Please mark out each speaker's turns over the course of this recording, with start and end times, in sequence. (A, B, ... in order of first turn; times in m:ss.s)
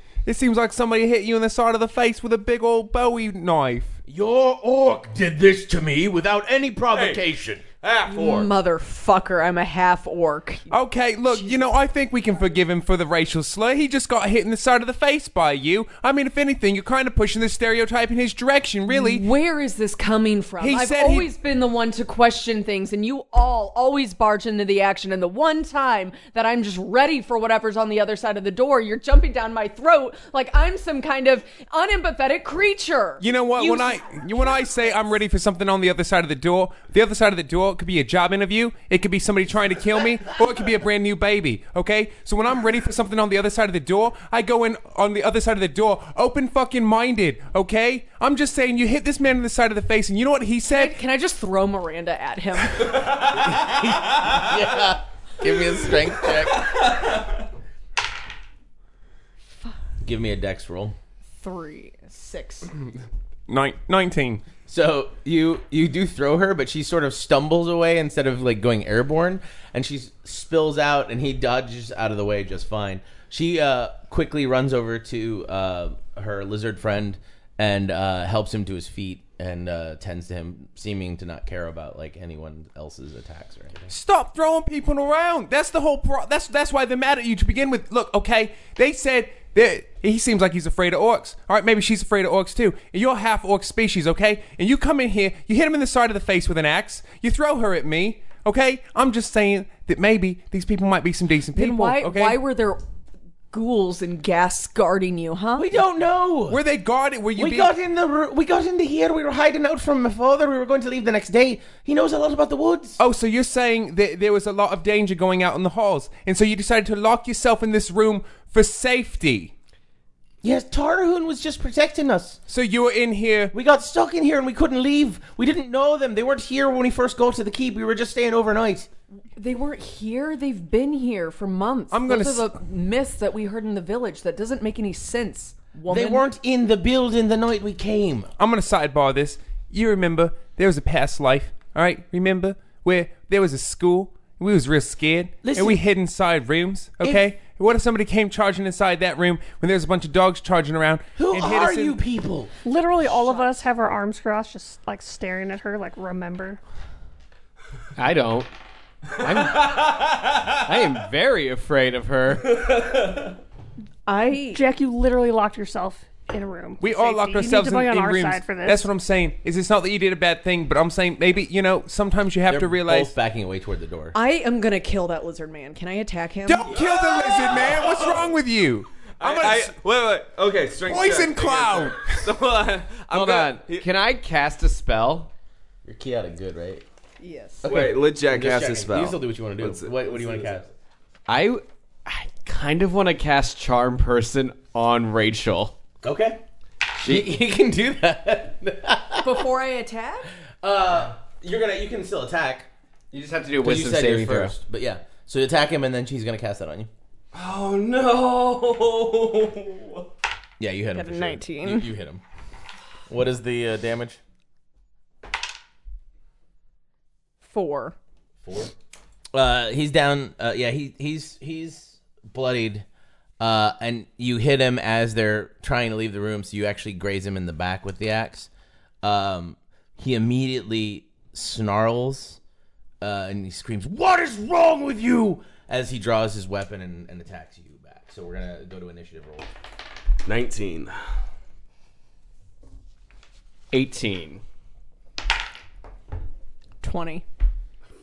0:00.2-0:04.0 A
0:04.1-0:07.6 B
0:06.9-0:08.5 C
0:08.1-0:10.8 D
0:10.7-0:19.2 A
0:11.3-0:11.7 D
0:18.9-0:34.9 D
0:20.6-0:21.3 A
0:33.2-0:50.9 A
0:50.7-0:52.9 D
0:53.3-0:56.8 B
1:00.0-1:01.0 B
1:01.4-1:02.7 D
1:03.5-1:04.4 A
1:04.7-1:23.9 B
1:23.9-1:42.4 A
1:41.5-1:42.8 D
1:43.5-1:45.7 D
1:45.6-1:46.6 B
1:46.5-1:47.7 A
1:47.4-1:53.0 B
1:53.0-1:59.5 A
2:00.4-2:02.4 B
2:02.5-2:03.5 A
2:03.5-2:08.9 B
2:09.4-2:16.3 D
2:11.9-2:12.5 A
2:15.9-2:18.3 B
2:18.4-2:32.0 A
2:25.4-2:25.8 B
2:27.0-2:27.3 B
2:31.2-2:32.5 B
2:32.6-2:36.6 E
2:33.1-2:33.6 D
2:38.0-2:38.5 F
2:39.2-2:41.0 C
2:39.2-2:39.8 F
2:40.6-2:42.5 F
2:42.4-2:43.4 C
2:44.1-2:44.6 D
2:44.5-2:48.9 E
2:46.8-2:53.2 A
2:52.5-2:54.2 B
2:54.1-2:56.8 D
2:56.5-2:59.8 A
2:56.7-2:58.4 C
2:59.2-3:03.9 C
3:00.8-3:02.3 A
3:03.1-3:05.3 F
3:05.8-3:06.8 B
3:07.2-3:07.7 D
3:07.6-3:10.6 C
3:07.7-3:07.9 F
3:08.3-3:10.7 B
3:11.3-3:15.8 F
3:16.0-3:16.4 B
3:16.9-3:19.4 B
3:17.0-3:17.3 F
3:19.2-3:20.3 D
3:20.6-3:22.7 B
3:23.1-3:24.6 F
3:23.6-3:26.9 B
3:27.3-3:30.1 C
3:30.6-3:32.2 B
3:30.9-3:31.9 D
3:33.1-3:34.2 B
3:37.4-3:38.0 D
3:39.3-3:42.9 B
3:43.4-3:48.5 B
3:49.0-3:52.4 B
3:53.0-3:59.5 B
4:00.3-4:01.0 C
4:03.7-4:04.4 F
4:06.8-4:07.2 D